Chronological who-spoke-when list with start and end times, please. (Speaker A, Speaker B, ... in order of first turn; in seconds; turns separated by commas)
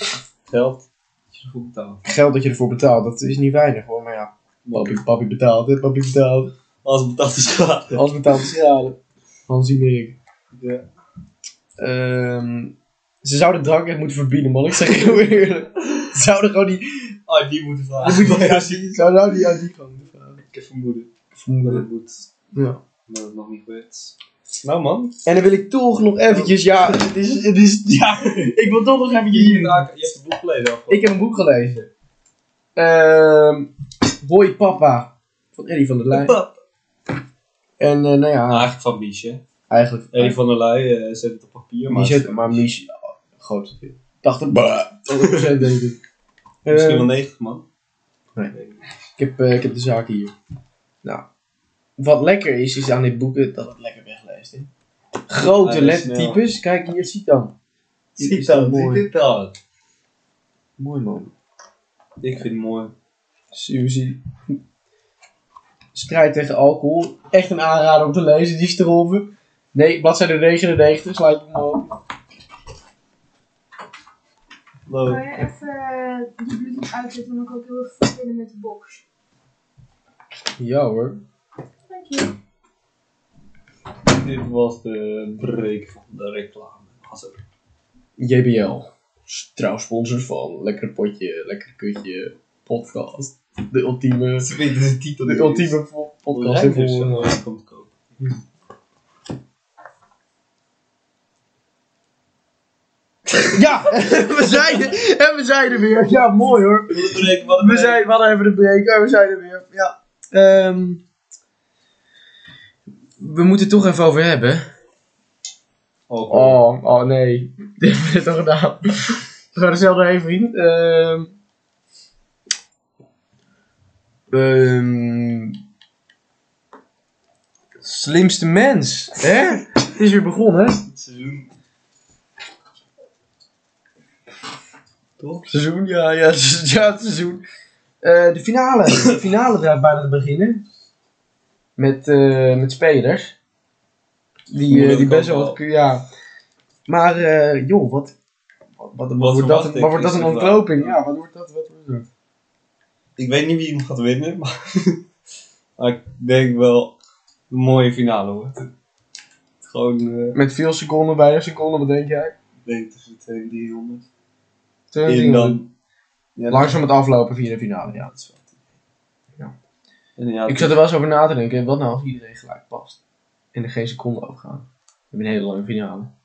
Speaker A: 0.5-2.0, Speaker B: 2.0-6.5, Speaker A: 4.7-5.0, Speaker A: 6.8-8.0, Speaker B: 7.9-9.0, Speaker B: 9.5-10.2, Speaker A: 10.5-10.8, Speaker B: 11.8-17.1, Speaker A: 17.3-19.1, Speaker B: 18.0-20.5, Speaker A: 20.5-21.1, Speaker B: 21.3-21.9, Speaker A: 21.6-22.3, Speaker B: 22.5-22.8, Speaker A: 23.1-25.2, Speaker B: 25.2-29.9, Speaker A: 26.3-27.0, Speaker A: 28.0-28.6, Speaker A: 29.3-31.2, Speaker B: 30.9-31.9, Speaker B: 32.8-33.7, Speaker B: 34.2-36.4, Speaker A: 36.1-36.6, Speaker B: 37.8-38.7, Speaker A: 38.5-39.4, Speaker B: 39.7-40.4, Speaker A: 40.1-42.7, Speaker B: 41.9-46.0, Speaker A: 45.2-45.6, Speaker A: 46.7-47.6, Speaker B: 46.7-47.1, Speaker A: 48.5-48.9, Speaker B: 49.2-50.3, Speaker B: 52.0-54.7, Speaker B: 55.3-57.5, Speaker A: 55.4-56.4, Speaker B: 58.2-59.1, Speaker A: 58.2-59.5, Speaker B: 60.8-61.3, Speaker A: 62.2-62.9, Speaker B: 63.5-64.2, Speaker B: 66.0-71.9, Speaker A: 74.9-75.3, Speaker C: 75.1-79.0, Speaker B: 80.6-81.2, Speaker C: 81.9-82.3, Speaker A: 84.1-87.4, Speaker B: 88.2-94.5, Speaker A: 94.4-95.8, Speaker B: 95.2-97.3, Speaker A: 96.3-97.9, Speaker B: 103.5-111.0, Speaker A: 106.9-108.0, Speaker B: 113.2-114.7, Speaker A: 116.1-116.6, Speaker B: 116.3-121.3, Speaker B: 124.3-125.6, Speaker B: 127.8-130.8, Speaker A: 130.9-131.5, Speaker A: 135.2-135.5, Speaker B: 135.5-137.4, Speaker B: 138.0-140.6, Speaker B: 141.8-143.4, Speaker B: 144.5-146.0, Speaker A: 144.7-145.6, Speaker B: 146.9-148.1, Speaker B: 148.8-152.1, Speaker A: 149.2-151.0, Speaker A: 153.2-155.0, Speaker A: 155.8-156.9, Speaker A: 157.5-158.7, Speaker A: 159.6-160.4, Speaker B: 160.3-162.3, Speaker A: 162.7-164.1, Speaker B: 164.9-165.6, Speaker A: 165.1-165.7, Speaker A: 166.4-166.8, Speaker B: 166.5-168.1, Speaker A: 168.0-168.6, Speaker A: 170.2-170.8, Speaker B: 170.5-173.0, Speaker B: 173.5-176.1